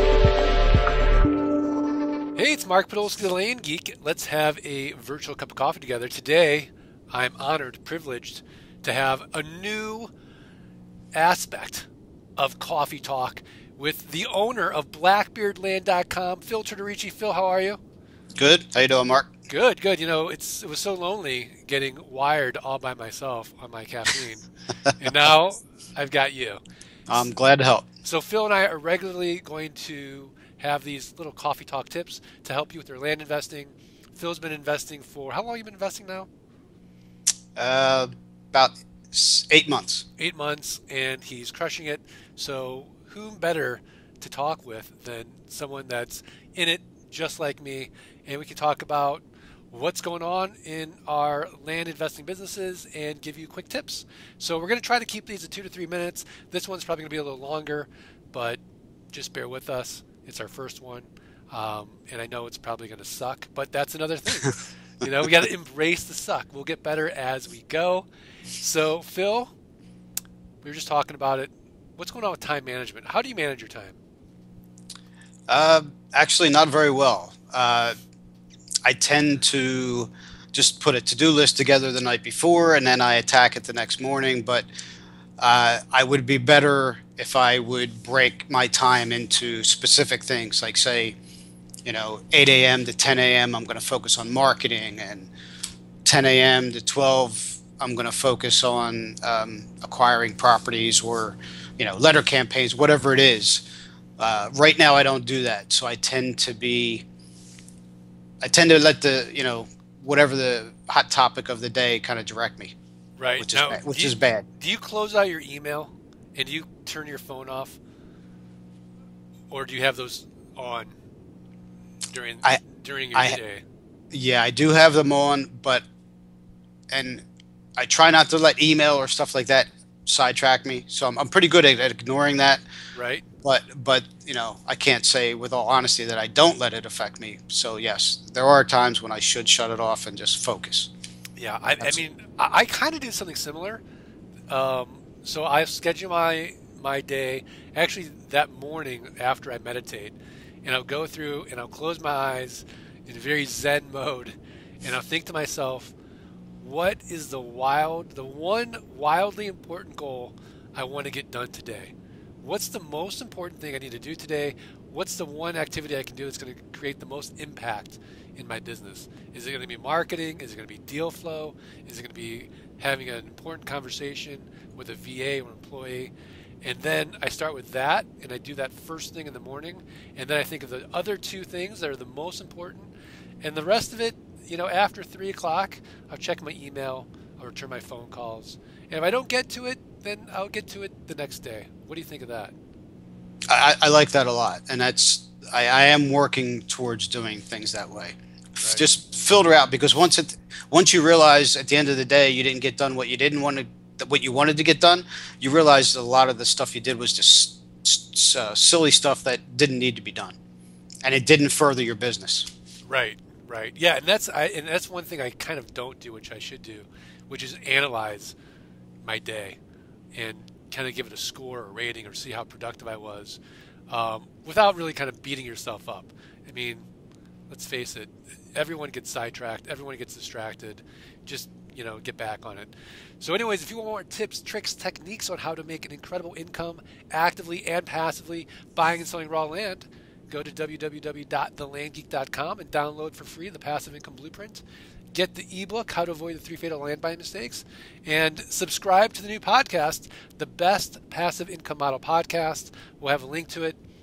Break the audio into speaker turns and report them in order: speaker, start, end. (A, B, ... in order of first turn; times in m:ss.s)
0:02.4-0:10.1 A
0:11.1-0:11.9 A
0:12.4-0:17.8 A
0:18.4-0:19.3 B
0:19.5-0:24.4 A
0:25.0-0:26.6 A
0:27.1-0:27.8 B
0:28.0-0:36.3 A
0:37.6-0:40.0 B
0:40.2-0:58.6 A
0:59.1-1:08.0 A
1:08.6-1:09.5 A
1:10.6-1:14.0 A
1:15.5-1:17.9 B
1:18.8-1:24.7 B
1:25.4-1:31.2 B
1:31.8-1:35.3 B
1:36.0-1:43.6 B
1:44.2-1:47.0 B
1:48.4-1:52.7 B
1:53.2-1:57.8 A
1:53.4-1:54.4 B
1:59.5-2:01.0 A
2:02.1-2:03.6 A
2:04.1-2:05.8 B
2:06.9-2:07.2 B
2:07.8-2:12.6 B
2:12.9-2:13.2 A
2:13.4-2:20.9 B
2:21.4-2:23.8 A
2:24.5-2:35.9 A
2:36.6-2:56.1 A
2:56.6-3:02.9 A
3:03.4-3:12.5 A
3:13.5-3:30.4 B
3:31.0-3:32.5 B
3:32.8-3:38.4 A
3:39.0-3:39.6 A
3:40.1-3:46.8 A
3:47.5-4:04.6 A
4:05.1-4:13.8 A